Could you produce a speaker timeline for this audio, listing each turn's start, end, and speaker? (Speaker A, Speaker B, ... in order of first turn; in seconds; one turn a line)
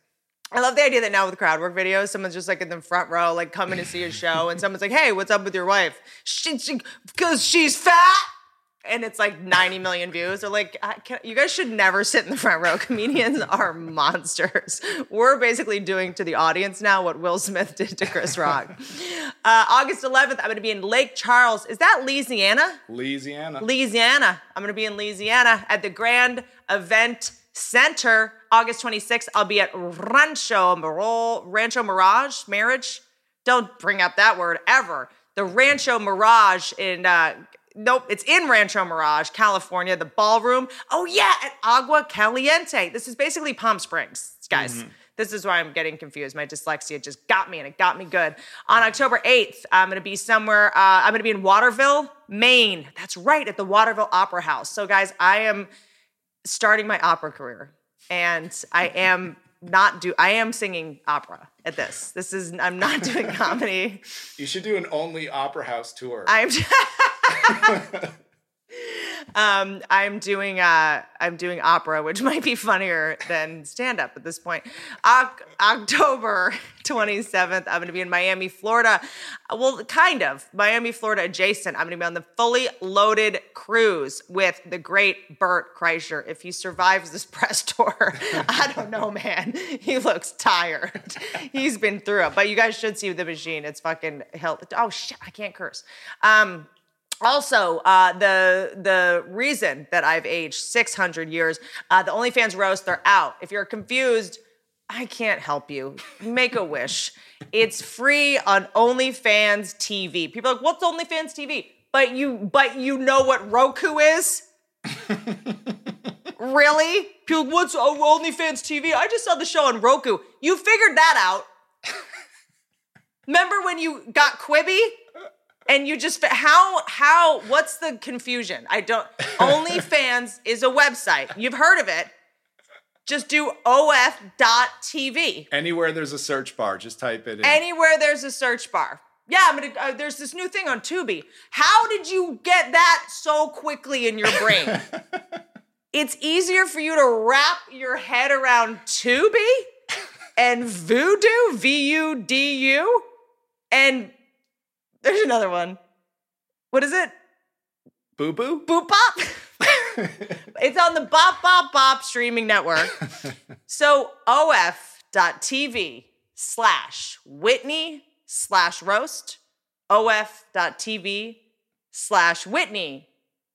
Speaker A: 0.5-8.3
Speaker A: 8.8-22.8
Speaker B: 22.9-23.6
Speaker A: 23.6-55.7
Speaker B: 44.5-44.8
Speaker A: 56.4-64.0
Speaker B: 64.4-66.3
Speaker A: 66.3-67.7
Speaker B: 67.5-68.1
Speaker A: 68.7-96.7
Speaker A: 97.2-114.4
Speaker A: 116.4-121.5
Speaker A: 123.3-125.0
Speaker A: 125.7-132.1
Speaker A: 133.1-135.5
Speaker B: 135.5-137.6
Speaker A: 137.4-144.8
Speaker B: 144.5-145.0
Speaker A: 145.9-149.7
Speaker A: 150.3-153.1
Speaker A: 153.7-154.1
Speaker A: 155.0-155.8
Speaker A: 156.7-157.1
Speaker B: 158.2-158.6
Speaker A: 158.6-160.0
Speaker B: 160.0-160.4
Speaker A: 160.5-162.9
Speaker A: 163.7-169.4
Speaker A: 169.9-171.4
Speaker A: 171.9-173.1